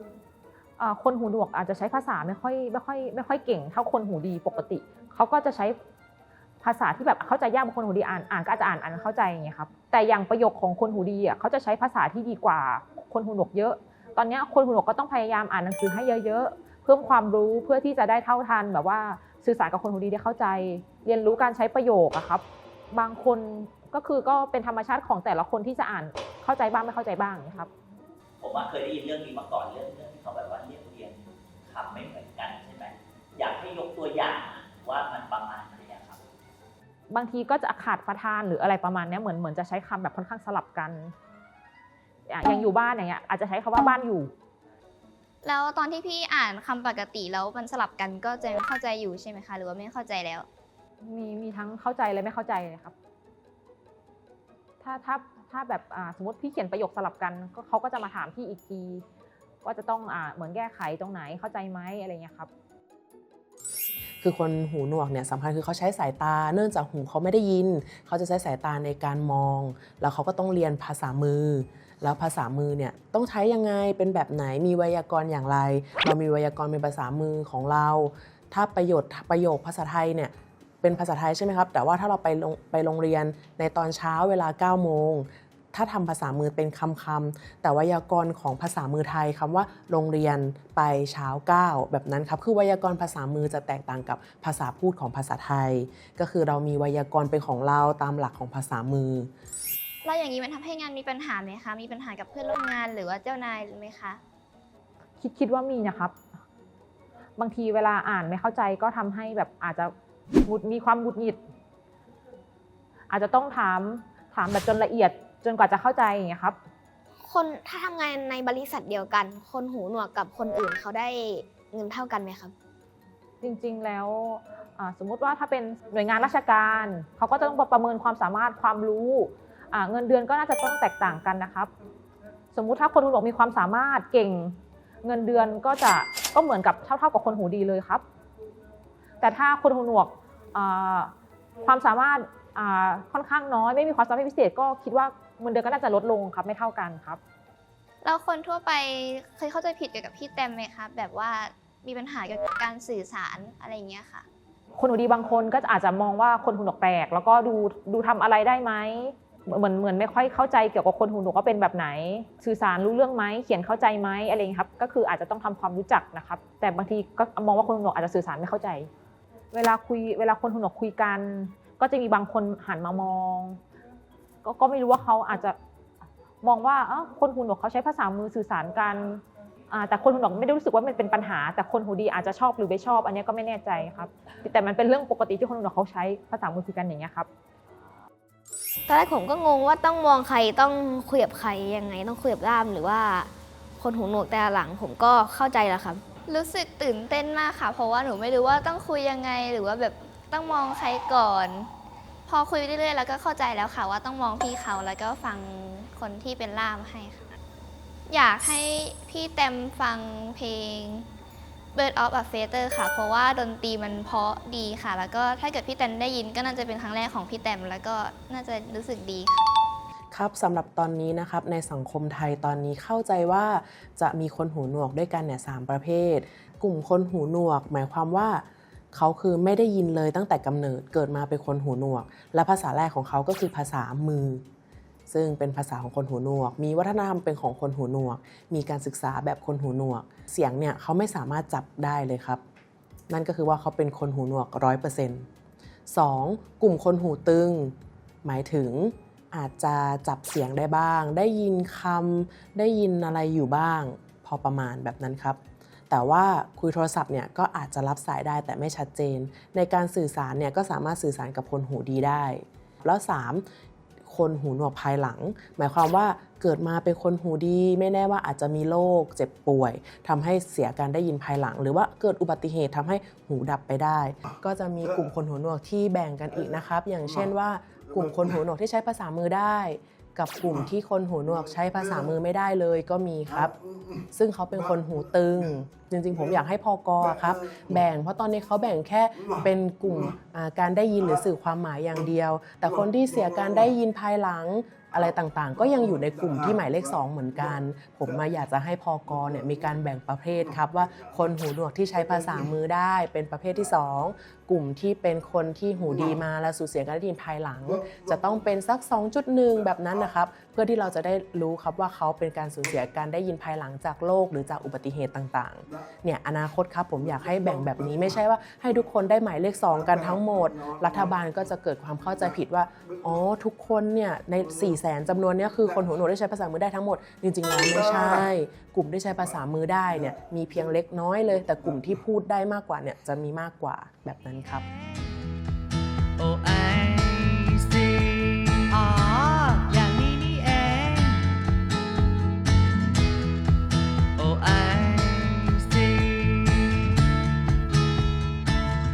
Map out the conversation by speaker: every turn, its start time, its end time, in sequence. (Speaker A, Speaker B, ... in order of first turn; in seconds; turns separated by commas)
Speaker A: 0.8-5.7, Speaker A: 6.6-27.7, Speaker B: 28.4-36.2, Speaker A: 37.1-41.1, Speaker A: 42.3-44.3, Speaker C: 45.4-50.5, Speaker A: 51.0-52.9, Speaker A: 54.8-59.0, Speaker A: 59.6-62.5, Speaker D: 64.2-99.3, Speaker C: 100.0-104.2, Speaker A: 105.2-106.2, Speaker A: 107.4-109.9, Speaker A: 110.5-111.4, Speaker A: 113.1-116.5, Speaker E: 117.3-122.5, Speaker A: 123.4-131.7, Speaker A: 132.5-138.0, Speaker A: 139.2-141.1, Speaker A: 141.6-147.2, Speaker C: 148.0-154.2, Speaker A: 154.8-168.9, Speaker A: 169.5-173.6, Speaker A: 174.4-175.6, Speaker A: 176.4-187.3, Speaker E: 188.9-193.3, Speaker E: 193.8-196.0, Speaker C: 196.2-201.7, Speaker C: 202.3-207.3, Speaker C: 208.1-211.1, Speaker C: 211.7-219.5, Speaker D: 220.1-234.4, Speaker D: 235.1-242.4, Speaker D: 243.1-245.2, Speaker D: 245.9-255.4, Speaker D: 255.9-263.4, Speaker D: 264.1-283.5, Speaker D: 284.1-334.6, Speaker F: 334.5-335.2, Speaker F: 336.2-341.4, Speaker F: 344.2-346.8